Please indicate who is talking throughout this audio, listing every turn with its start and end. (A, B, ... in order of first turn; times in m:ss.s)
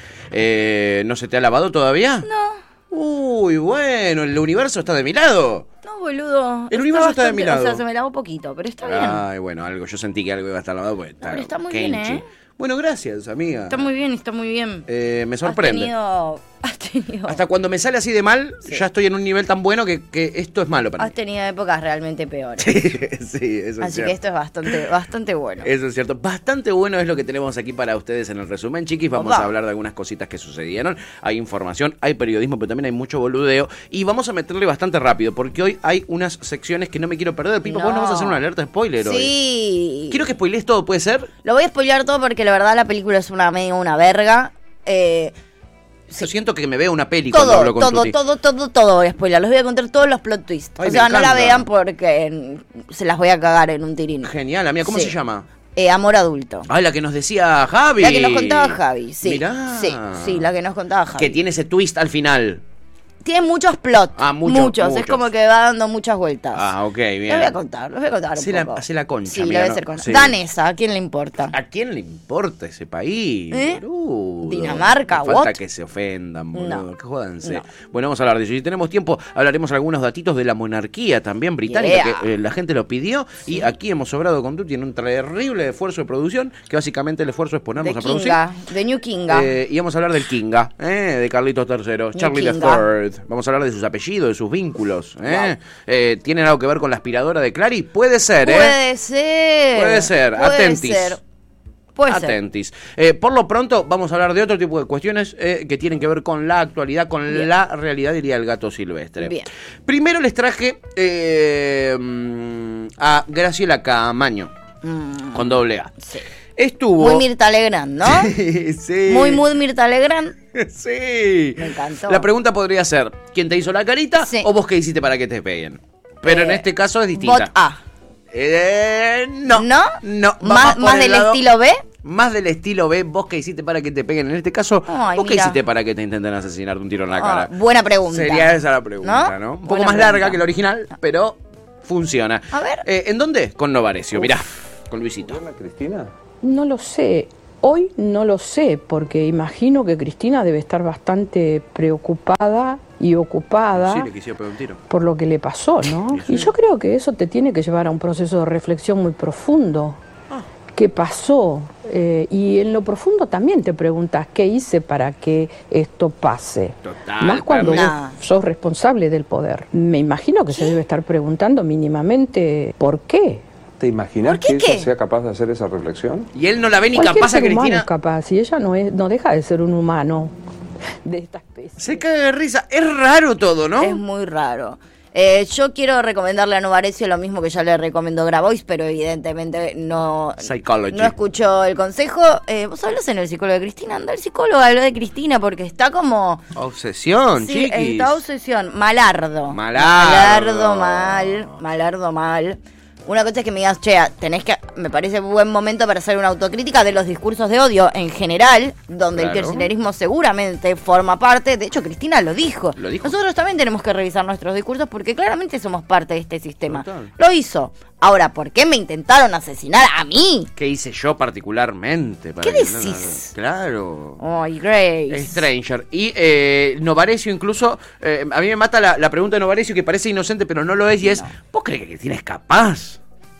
0:00.3-0:02.3 A
0:02.2-0:02.6 B
0:02.9-0:05.7 A
0:05.8-0:09.2 B
0:06.7-0:07.8 A
0:08.8-0:13.8 A
0:11.2-0:12.2 B
0:13.7-0:14.8 B
0:14.9-0:15.9 A
0:15.4-0:17.4 B
0:17.3-0:21.1 A
0:21.0-0:22.8 B
0:22.6-0:24.1 A
0:23.8-0:25.7 B
0:25.6-0:39.3 A
0:29.1-0:29.5 B
0:37.6-0:38.4 B
0:39.0-0:40.2 B
0:40.1-0:41.3 A
0:41.4-0:45.3 B
0:46.2-0:48.1 A
0:47.3-0:54.3 B
0:50.8-0:51.6 A
0:54.2-0:55.5 A
0:54.8-0:55.1 B
0:55.8-0:56.7 B
0:56.7-1:00.4 A
0:58.0-1:01.4 B
1:01.2-1:02.6 A
1:03.2-1:06.7 B
1:04.2-1:05.3 A
1:06.5-1:07.6 A
1:07.3-1:11.5 B
1:08.4-1:10.3 A
1:11.5-1:28.4 A
1:13.5-1:13.8 B
1:14.4-1:15.5 B
1:16.5-1:16.8 B
1:21.6-1:22.2 B
1:27.8-1:29.5 B
1:29.3-1:38.8 A
1:32.1-1:32.8 B
1:35.2-1:35.5 B
1:38.4-1:41.2 B
1:39.7-1:41.2 A
1:42.0-1:42.3 B
1:42.1-1:54.5 A
1:49.2-1:49.5 B
1:54.8-1:56.2 B
1:55.3-1:55.9 A
1:56.6-1:57.2 A
1:57.0-1:58.3 B
1:58.0-1:59.4 A
1:59.1-2:00.3 B
2:00.5-2:07.5 A
2:01.6-2:02.3 B
2:04.2-2:04.5 B
2:06.2-2:07.8 B
2:08.3-2:11.4 A
2:09.5-2:11.8 B
2:12.0-2:17.5 A
2:14.9-2:15.6 B
2:17.1-2:20.4 B
2:18.1-2:25.4 A
2:22.5-2:22.8 B
2:25.2-2:26.1 C
2:26.4-2:34.1 D
2:33.8-2:34.8 A
2:34.9-2:40.0 D
2:35.9-2:36.5 A
2:40.7-2:53.4 D
2:46.8-2:47.9 A
2:47.6-2:48.2 B
2:53.8-2:56.3 C
2:54.2-2:54.9 B
2:56.3-2:57.9 A
2:56.9-3:00.3 D
3:01.0-3:02.0 D
3:01.8-3:04.0 A
3:03.8-3:16.4 B
3:10.4-3:11.1 A
3:16.5-3:18.2 A
3:17.4-3:40.5 B
3:19.5-3:21.6 A
3:29.2-3:29.7 A
3:32.8-3:33.1 A
3:36.7-3:37.1 A
3:40.6-3:44.2 A
3:42.4-3:43.3 B
3:44.2-3:45.4 B
3:45.1-3:53.0 A
3:51.0-3:51.3 B